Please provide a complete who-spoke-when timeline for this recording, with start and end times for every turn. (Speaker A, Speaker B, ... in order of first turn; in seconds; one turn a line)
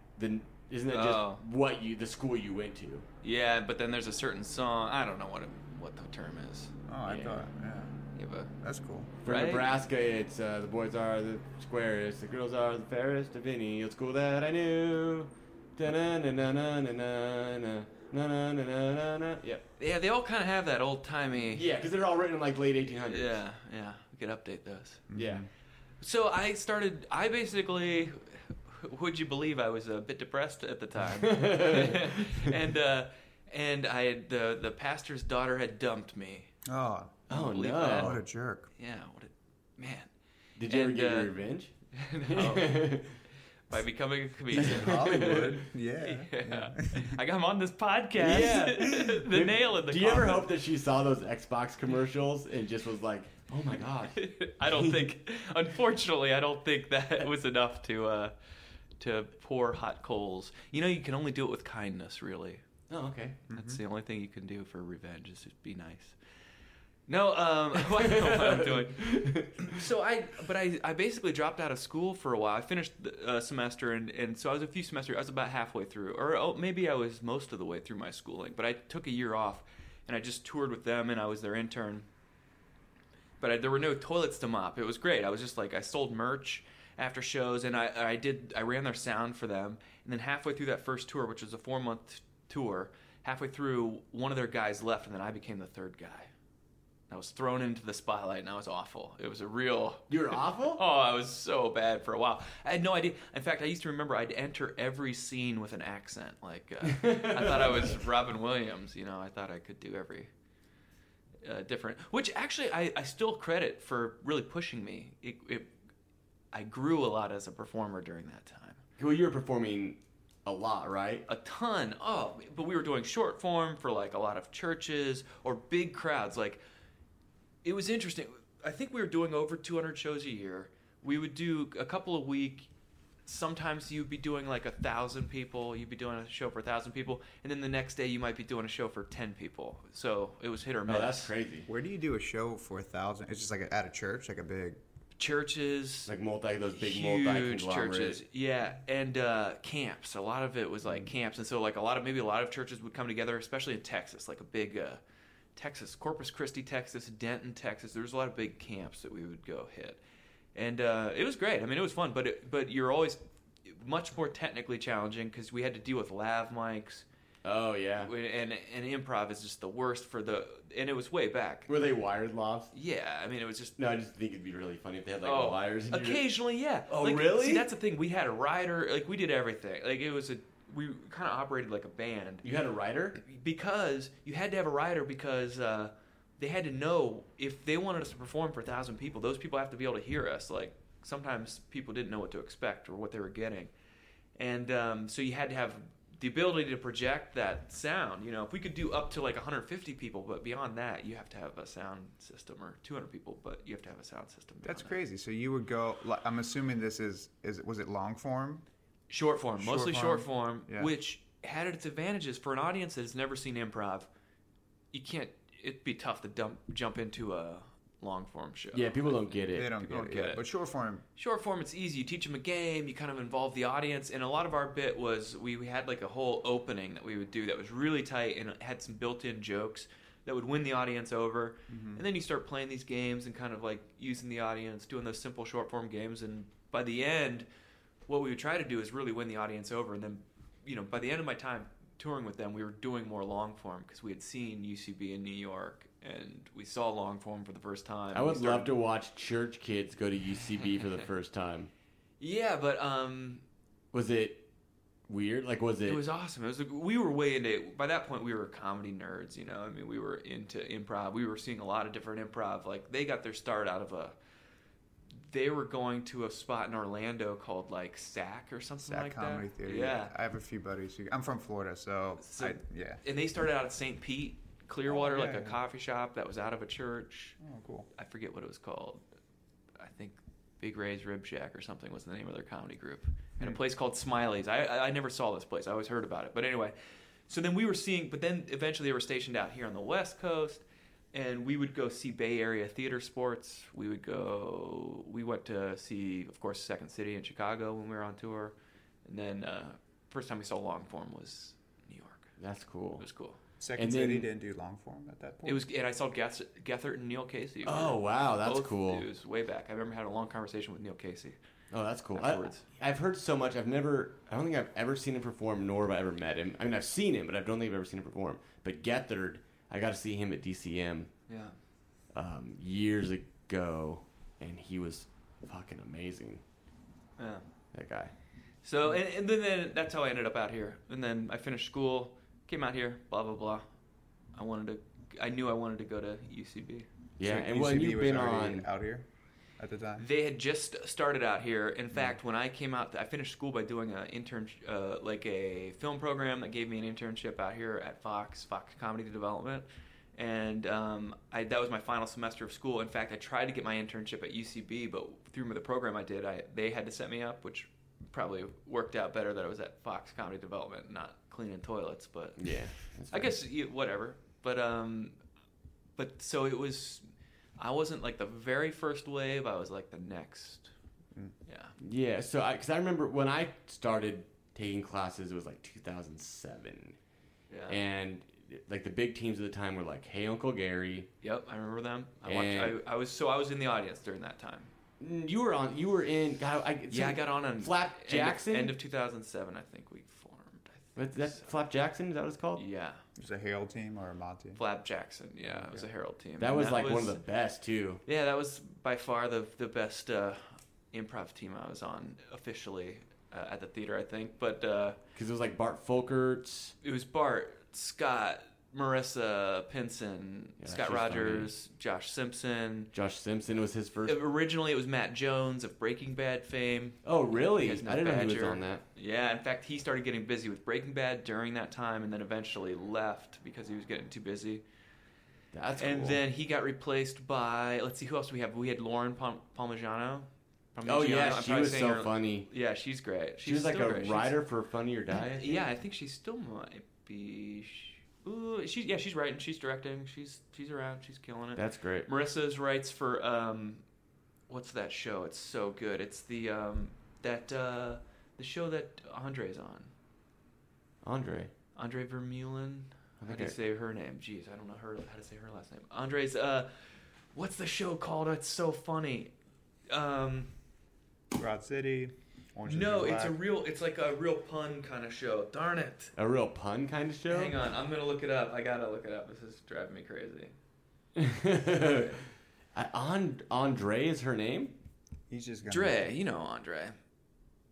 Speaker A: 0.2-3.1
Speaker B: 0.9-1.4
Speaker B: 3.2-6.7
Speaker C: 6.9-7.9
Speaker A: 7.1-7.4
Speaker B: 8.1-8.5
Speaker C: 8.6-9.1
Speaker A: 9.2-19.7
Speaker B: 9.2-9.7
Speaker B: 19.8-21.7
Speaker A: 21.5-23.4
Speaker B: 23.1-25.0
Speaker C: 25.1-25.5
Speaker A: 25.1-25.5
Speaker B: 26.0-36.5
Speaker A: 31.2-32.1
Speaker C: 36.6-37.2
Speaker A: 37.3-38.2
Speaker B: 37.3-38.2
Speaker C: 37.9-38.7
Speaker B: 38.8-40.1
Speaker A: 40.6-43.2
Speaker B: 40.7-41.3
Speaker B: 41.9-43.0
Speaker B: 43.7-50.5
Speaker A: 44.5-45.6
Speaker C: 44.6-47.2
Speaker A: 48.2-55.1
Speaker B: 54.1-58.4
Speaker B: 59.0-62.6
Speaker A: 62.9-63.4
Speaker C: 63.5-63.8
Speaker B: 63.5-66.2
Speaker B: 67.1-82.1
Speaker A: 68.0-69.8
Speaker B: 83.4-96.3
Speaker B: 97.1-110.3
Speaker A: 100.1-100.8
Speaker A: 106.9-108.0
Speaker B: 111.4-115.7
Speaker B: 116.5-118.8
Speaker A: 119.0-121.2
Speaker B: 121.3-126.6
Speaker B: 127.6-132.7
Speaker B: 133.3-141.3
Speaker A: 140.9-141.7
Speaker C: 141.7-144.8
Speaker B: 145.2-146.1
Speaker A: 146.1-148.2
Speaker B: 146.7-155.0
Speaker B: 155.6-160.0
Speaker B: 160.6-167.1
Speaker A: 167.4-168.1
Speaker B: 168.0-171.7
Speaker A: 171.7-172.7
Speaker B: 172.7-173.8
Speaker A: 173.8-176.3
Speaker B: 175.2-182.4
Speaker A: 176.9-177.7
Speaker A: 182.4-183.2
Speaker B: 183.2-193.7
Speaker B: 194.4-205.0
Speaker C: 204.6-208.7
Speaker B: 209.1-214.1
Speaker C: 209.6-210.9
Speaker B: 214.9-220.4
Speaker A: 218.7-219.7
Speaker C: 219.5-221.1
Speaker B: 221.2-237.5
Speaker C: 231.7-232.0
Speaker B: 238.1-248.7
Speaker A: 248.1-251.7
Speaker B: 252.2-253.4
Speaker A: 253.9-254.5
Speaker A: 255.1-256.0
Speaker B: 255.9-264.2
Speaker B: 265.1-270.1
Speaker C: 268.9-273.0
Speaker B: 272.2-277.4
Speaker C: 274.9-275.6
Speaker C: 277.4-277.9
Speaker B: 277.9-279.0
Speaker B: 279.8-286.8
Speaker B: 287.3-302.3
Speaker A: 302.4-303.1
Speaker B: 303.0-303.4
Speaker C: 303.6-305.6
Speaker A: 303.8-304.3
Speaker B: 305.4-311.4
Speaker A: 307.6-309.1
Speaker A: 311.7-321.1
Speaker B: 312.1-312.7
Speaker B: 321.3-321.6
Speaker A: 322.1-326.4
Speaker B: 327.2-327.5
Speaker A: 327.7-328.1
Speaker B: 328.6-333.7
Speaker B: 334.4-336.9
Speaker A: 337.2-338.7
Speaker C: 337.2-340.1
Speaker B: 340.0-365.2
Speaker A: 362.4-363.3
Speaker B: 366.0-367.1
Speaker B: 367.6-370.7
Speaker B: 371.5-371.8
Speaker A: 371.8-377.0
Speaker B: 377.5-377.8
Speaker A: 377.7-381.1
Speaker B: 381.2-384.7
Speaker A: 382.3-382.8
Speaker A: 385.0-388.8
Speaker B: 386.9-391.5
Speaker A: 391.0-392.6
Speaker B: 392.6-393.0
Speaker C: 393.2-394.6
Speaker B: 394.6-397.2
Speaker A: 396.4-398.0
Speaker B: 398.1-405.0
Speaker A: 405.1-406.8
Speaker B: 406.8-412.9
Speaker A: 410.6-411.5
Speaker A: 412.9-414.2
Speaker B: 414.1-424.6
Speaker A: 417.1-418.8
Speaker A: 425.5-426.2
Speaker B: 425.8-434.4
Speaker A: 430.9-432.5
Speaker A: 433.4-435.6
Speaker B: 435.3-443.8
Speaker A: 441.6-442.1
Speaker B: 444.5-449.9
Speaker A: 451.0-451.5
Speaker B: 451.8-456.7
Speaker A: 453.2-453.6
Speaker B: 457.3-459.3
Speaker B: 459.9-460.5
Speaker C: 461.4-463.4
Speaker B: 462.6-466.1
Speaker A: 466.2-467.6
Speaker B: 467.3-470.5
Speaker A: 471.2-472.2
Speaker A: 472.7-474.8
Speaker C: 475.3-476.1
Speaker B: 475.7-477.0